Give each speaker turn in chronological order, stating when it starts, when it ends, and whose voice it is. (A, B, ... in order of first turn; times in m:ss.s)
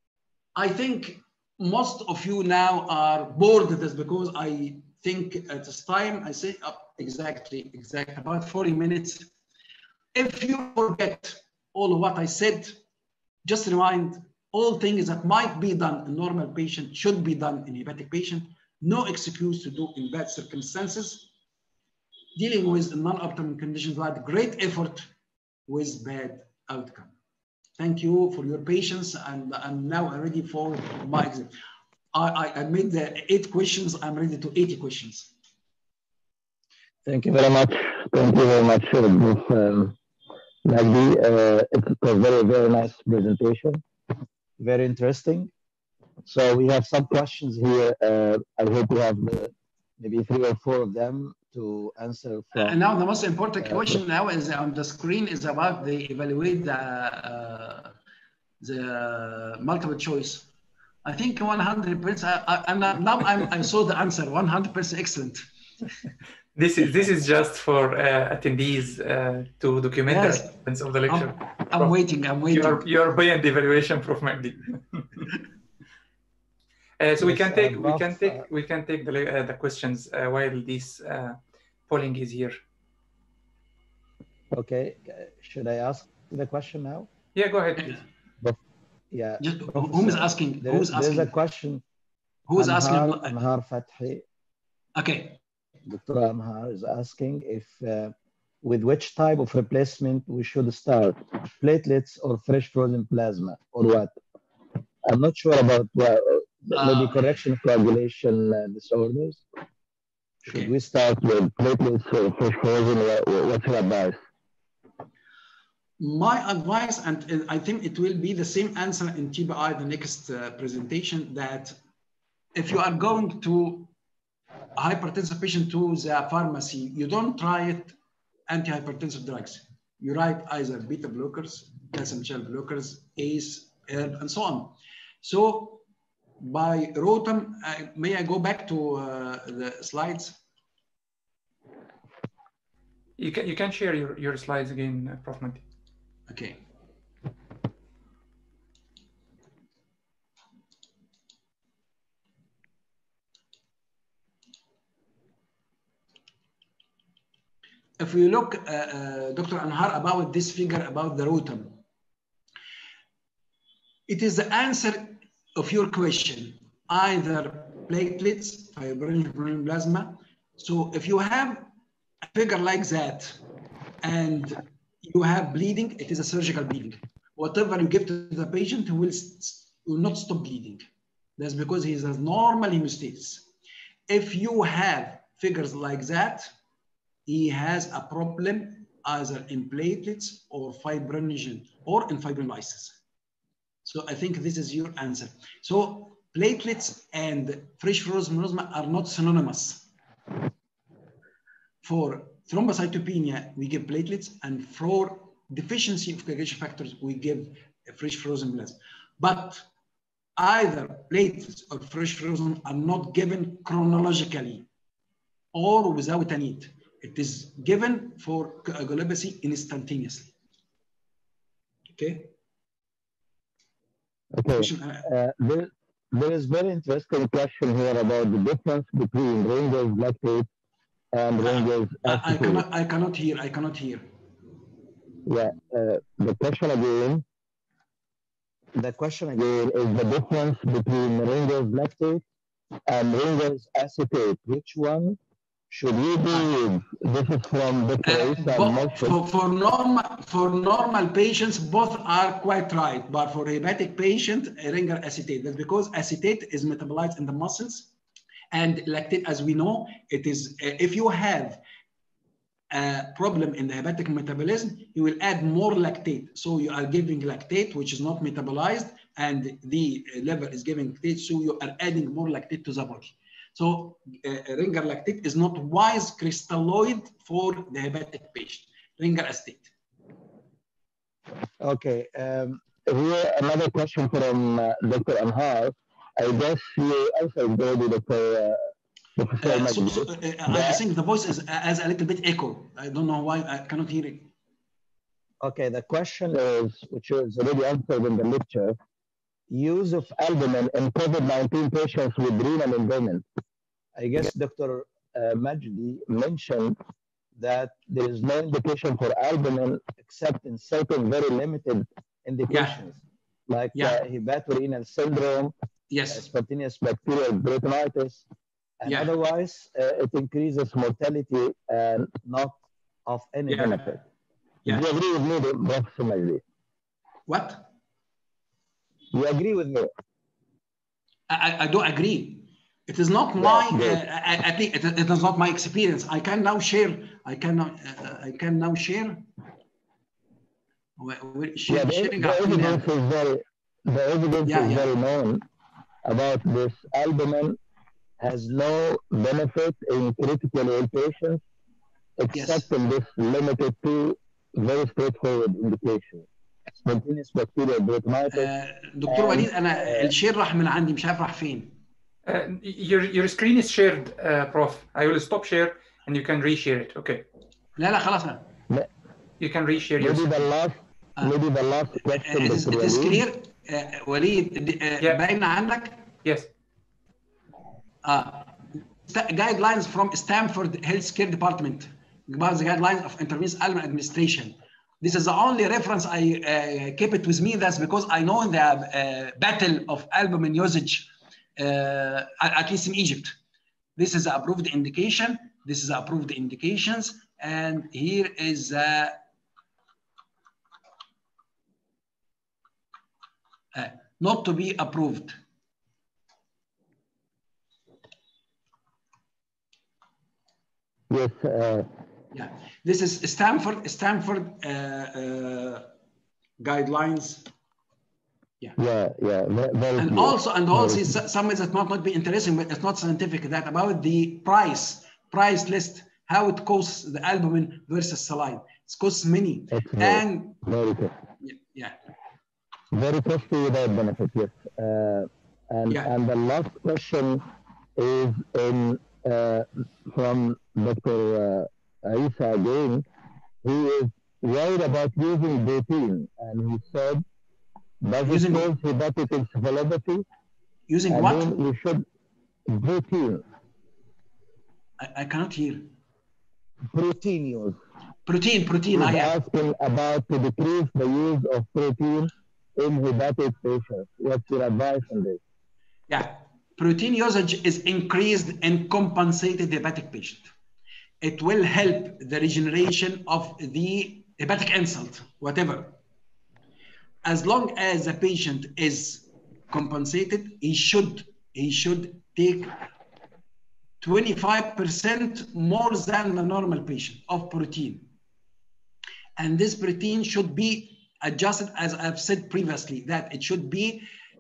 0:00.6-0:09.3 A
0:10.1-0:12.8 A
0:13.4-0:21.3 A
0:22.4-0:25.1 A
0:25.7-0:27.1 A
0:27.8-0:31.5 A
0:32.1-0:35.3 A
0:37.1-0:40.0 B
0:40.6-0:43.8 B
0:44.6-0:45.5 B
0:46.2-0:52.8 B
0:52.6-0:58.0 A
0:53.6-0:54.0 B
0:58.6-1:00.5 A
1:01.0-1:05.5 A
1:06.6-1:12.0 C
1:10.1-1:10.5 A
1:11.1-1:12.8 A
1:12.5-1:15.3 C
1:17.0-1:22.6 C
1:17.2-1:18.4 B
1:24.5-1:27.1 B
1:27.4-1:28.0 C
1:27.8-1:28.0 A
1:29.1-1:31.8 B
1:29.4-1:31.3 A
1:32.5-1:33.4 A
1:32.6-1:34.2 B
1:35.0-1:35.4 A
1:35.9-1:44.2 B
1:45.1-1:49.4 B
1:46.8-1:47.0 A
1:50.4-1:50.7 A
1:50.5-1:54.2 B
1:56.0-2:01.8 A
2:02.6-2:03.9 A
2:04.8-2:08.0 A
2:08.5-2:15.8 A
2:16.4-2:20.4 A
2:23.2-2:25.6 C
2:26.3-2:26.6 A
2:38.0-2:41.8 A
2:44.1-2:51.7 A
2:52.3-2:53.4 A
2:54.0-3:00.8 A
3:01.4-3:03.5 A
3:04.1-3:06.5 A
3:07.3-3:13.0 A
3:13.8-3:19.9 A
3:21.8-3:29.6 A
3:30.4-3:34.7 A
3:35.5-3:40.3 A
3:41.9-3:42.3 A
3:44.3-3:50.5 B
3:44.5-3:45.1 A
3:51.1-3:52.6 B
3:51.4-3:54.1 A
3:55.2-3:57.2 B
3:58.8-4:02.2 B
4:02.9-4:05.2 B
4:05.7-4:09.2 B
4:08.0-4:17.9 A
4:18.5-4:21.6 A
4:22.7-4:39.7 A
4:41.6-4:48.6 B
4:49.2-4:50.8 B
4:49.4-4:54.3 A
4:55.4-4:58.8 B
4:59.5-5:03.3 B
5:04.0-5:06.8 B
5:07.4-5:15.5 B
5:12.5-5:12.8 A
5:13.7-5:14.0 A
5:15.9-5:16.2 A
5:16.1-5:18.2 B
5:18.8-5:24.0 B
5:18.8-5:19.1 A
5:23.5-5:24.0 A
5:24.7-5:26.4 B
5:27.3-5:27.7 A
5:29.1-5:29.9 B
5:31.3-5:39.3 A
5:33.4-5:34.0 B
5:41.0-5:42.9 A
5:41.7-5:45.5 B
5:44.5-5:44.9 A
5:46.0-5:47.6 B
5:48.2-5:51.4 B
5:52.2-5:56.3 B
5:52.3-5:52.7 A
5:56.8-5:58.5 B
5:58.3-6:01.8 A
5:59.1-6:00.1 B
6:02.2-6:07.2 C
6:07.8-6:08.5 A
6:09.4-6:10.5 C
6:10.0-6:13.2 B
6:12.1-6:16.1 A
6:16.2-6:16.5 C
6:18.0-6:33.4 A
6:34.0-6:39.2 A
6:43.7-6:45.4 A
6:51.1-6:51.9 B
6:52.3-6:55.9 A
6:56.6-6:57.5 A
6:58.8-7:01.1 B
7:00.0-7:10.6 A
7:09.7-7:11.2 B
7:11.4-7:12.0 A
7:12.9-7:17.4 B
7:18.0-7:23.0 B
7:23.6-7:27.2 B
7:28.0-7:30.2 B
7:28.2-7:28.7 A
7:30.9-7:31.5 A
7:31.1-7:32.0 B
7:32.7-7:33.4 B
7:35.0-7:35.9 A
7:36.9-7:37.8 B
7:38.3-7:39.3 A
7:38.9-7:45.4 B
7:46.1-7:50.5 A
7:51.2-7:56.0 A
7:57.2-8:02.8 A
8:04.0-8:08.1 A
8:09.4-8:14.1 A